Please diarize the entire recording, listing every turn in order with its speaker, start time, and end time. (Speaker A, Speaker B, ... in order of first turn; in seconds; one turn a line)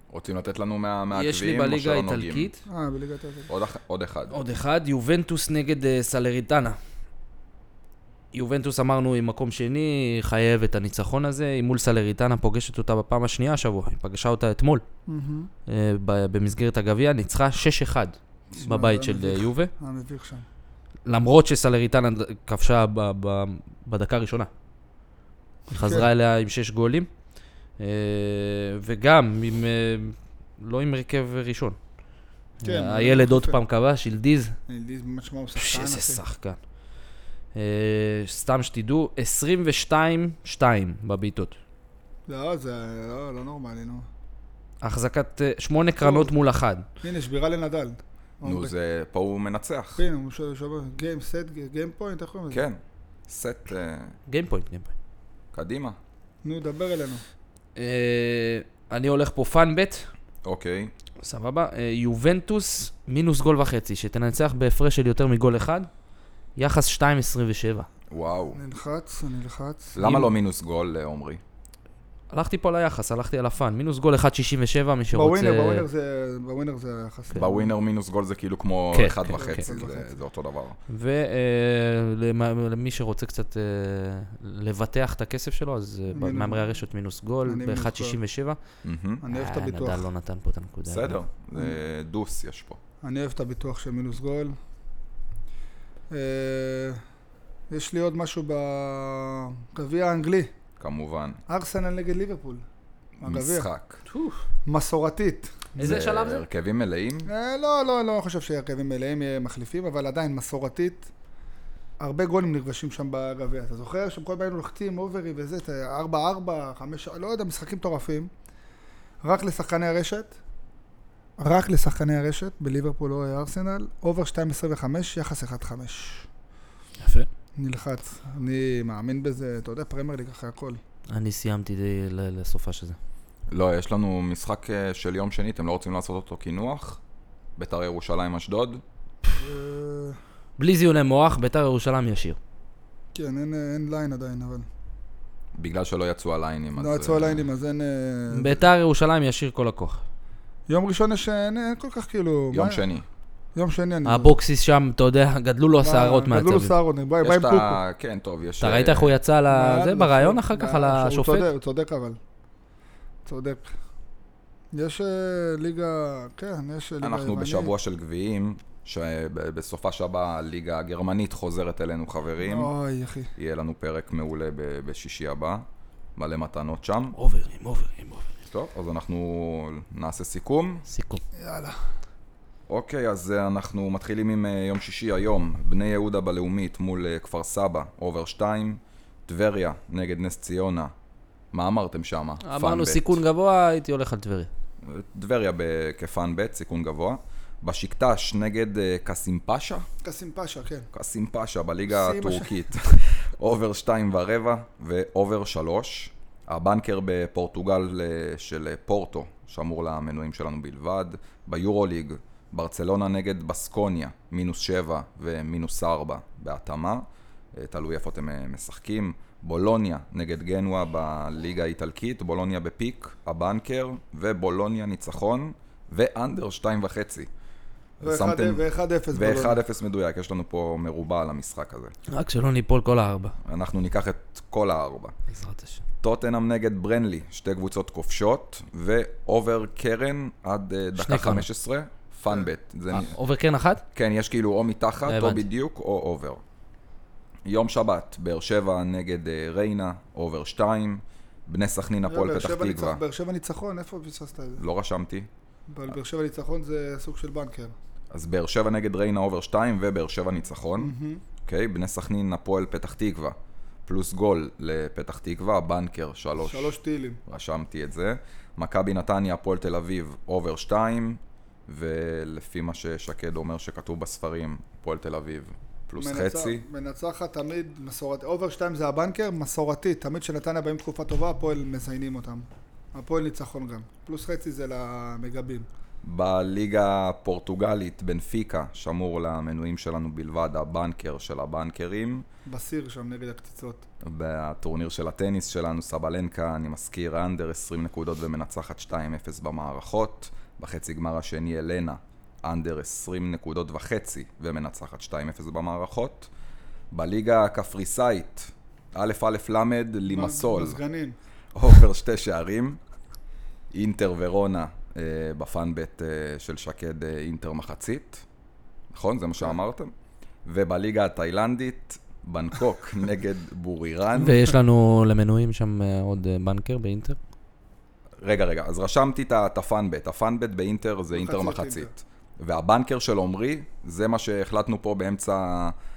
Speaker A: 0.1-2.5
Speaker B: 1.1-2.6
Speaker C: 2.7-3.5
Speaker A: 3.5-4.4
Speaker B: 4.3-6.8
Speaker B: 8.3-14.8
Speaker C: 15.1-15.5
Speaker B: 15.7-19.7
Speaker C: 18.5-20.4
Speaker B: 21.1-24.5
Speaker C: 25.7-26.1
Speaker B: 25.7-27.1
Speaker B: 27.8-31.8
Speaker B: 32.6-34.6
Speaker C: 32.6-33.6
Speaker C: 34.7-36.2
Speaker B: 35.6-36.6
Speaker B: 37.5-41.5
Speaker C: 42.3-44.1
Speaker B: 44.8-46.9
Speaker C: 46.0-46.3
Speaker C: 47.0-48.7
Speaker A: 48.4-50.0
Speaker C: 50.0-52.7
Speaker A: 52.5-54.2
Speaker B: 54.3-54.9
Speaker A: 55.5-56.0
Speaker C: 56.4-57.2
Speaker B: 57.8-60.1
Speaker A: 60.5-60.9
Speaker B: 61.2-65.9
Speaker B: 66.6-67.9
Speaker A: 68.1-68.6
Speaker C: 68.5-70.0
Speaker A: 70.0-71.4
Speaker B: 70.0-70.3
Speaker B: 72.3-75.9
Speaker C: 75.1-77.7
Speaker A: 77.3-80.8
Speaker B: 78.9-79.7
Speaker C: 79.3-80.2
Speaker B: 80.9-88.6
Speaker C: 86.1-86.7
Speaker C: 87.5-88.2
Speaker A: 88.8-89.2
Speaker C: 89.2-90.1
Speaker B: 89.3-91.2
Speaker A: 90.9-92.8
Speaker C: 93.0-94.6
Speaker C: 96.1-97.0
Speaker C: 97.7-100.5
Speaker A: 100.8-101.4
Speaker C: 101.5-102.7
Speaker C: 103.2-103.7
Speaker A: 103.2-104.0
Speaker B: 104.1-104.4
Speaker C: 104.7-105.9
Speaker B: 105.8-106.5
Speaker A: 105.8-107.3
Speaker C: 107.3-111.1
Speaker C: 112.0-118.3
Speaker C: 119.2-120.3
Speaker C: 121.4-126.3
Speaker B: 127.0-127.3
Speaker C: 127.6-130.8
Speaker B: 131.1-133.0
Speaker A: 133.5-137.0
Speaker A: 137.6-138.8
Speaker C: 139.3-140.2
Speaker B: 140.6-142.4
Speaker C: 143.1-144.7
Speaker A: 145.6-147.5
Speaker C: 146.8-148.7
Speaker B: 148.3-150.0
Speaker C: 150.7-152.8
Speaker A: 152.5-153.1
Speaker C: 153.6-154.4
Speaker B: 154.1-156.8
Speaker C: 155.8-157.8
Speaker A: 157.2-159.2
Speaker B: 158.6-161.5
Speaker C: 159.5-162.2
Speaker C: 163.3-163.7
Speaker C: 164.7-167.7
Speaker A: 167.0-172.7
Speaker C: 172.4-173.3
Speaker A: 173.3-175.7
Speaker A: 176.2-177.2
Speaker B: 177.2-178.4
Speaker A: 178.5-180.9
Speaker B: 180.9-181.2
Speaker C: 181.4-181.9
Speaker A: 182.7-190.9
Speaker A: 191.5-193.2
Speaker B: 192.4-194.5
Speaker A: 194.8-199.9
Speaker C: 200.0-200.9
Speaker A: 200.9-227.3
Speaker C: 201.9-202.8
Speaker A: 228.0-231.9
Speaker C: 228.0-229.6
Speaker B: 232.1-233.4
Speaker A: 233.4-235.2
Speaker B: 235.3-235.8
Speaker A: 236.0-243.2
Speaker B: 241.0-241.5
Speaker B: 242.9-243.8
Speaker A: 243.9-246.4
Speaker B: 245.1-245.5
Speaker A: 247.5-253.0
Speaker C: 252.1-254.6
Speaker A: 254.6-255.3
Speaker C: 255.7-257.7
Speaker A: 258.1-260.9
Speaker C: 260.8-261.2
Speaker A: 261.4-276.6
Speaker C: 266.4-267.2
Speaker C: 276.0-285.7
Speaker A: 286.0-292.2
Speaker C: 292.5-293.8
Speaker A: 294.0-306.3
Speaker A: 306.9-310.8
Speaker C: 310.1-311.2
Speaker A: 311.6-312.8
Speaker A: 313.7-318.2
Speaker A: 318.9-319.9
Speaker A: 320.4-324.4
Speaker B: 324.2-327.2
Speaker A: 328.2-335.8
Speaker C: 331.1-331.9